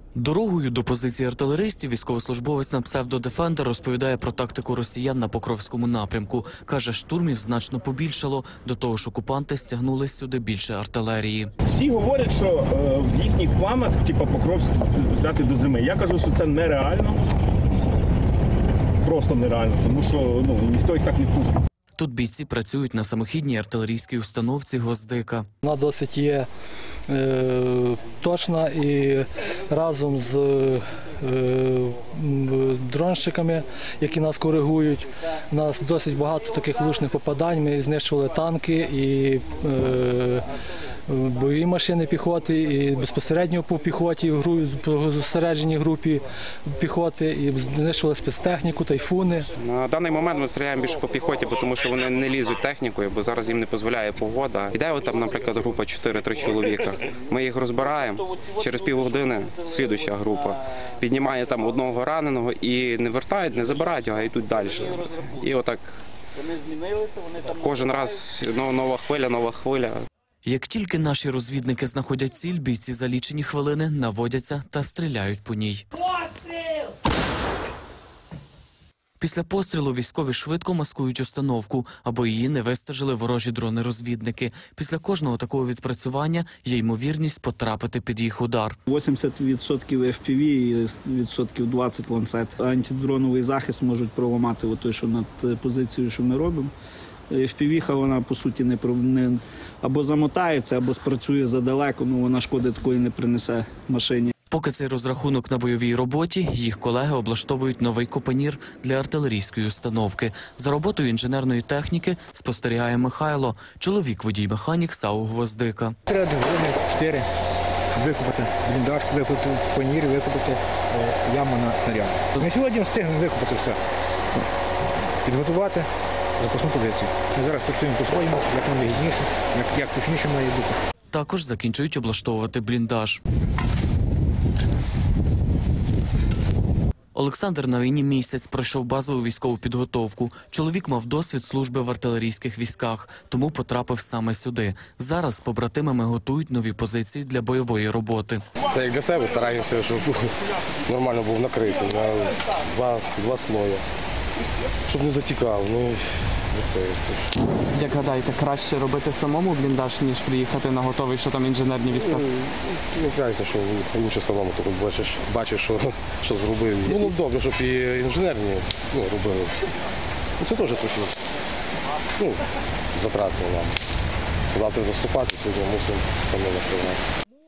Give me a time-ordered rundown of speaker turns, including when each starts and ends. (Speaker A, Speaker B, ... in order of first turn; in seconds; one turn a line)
Speaker A: 0.1-11.5
Speaker B: 11.6-17.2
Speaker B: 19.0-21.6
Speaker A: 21.9-25.4
Speaker C: 25.6-26.5
Speaker C: 27.1-40.5
Speaker C: 41.1-49.5
Speaker D: 49.6-66.0
Speaker D: 67.5-70.0
Speaker A: 70.4-75.8
Speaker A: 79.2-88.8
Speaker E: 88.9-96.7
Speaker E: 97.3-104.3
Speaker A: 104.5-115.9
Speaker F: 116.1-117.2
Speaker F: 117.9-123.8
Speaker F: 125.2-125.9
Speaker F: 126.4-130.8
Speaker A: 131.1-133.2
Speaker A: 137.1-148.4
Speaker G: 148.7-150.3
Speaker G: 150.9-153.8
Speaker G: 154.8-157.3
Speaker H: 157.7-162.0
Speaker D: 161.9-162.2
Speaker G: 161.9-169.5
Speaker G: 170.4-171.2
Speaker G: 172.9-173.7
Speaker G: 174.5-177.0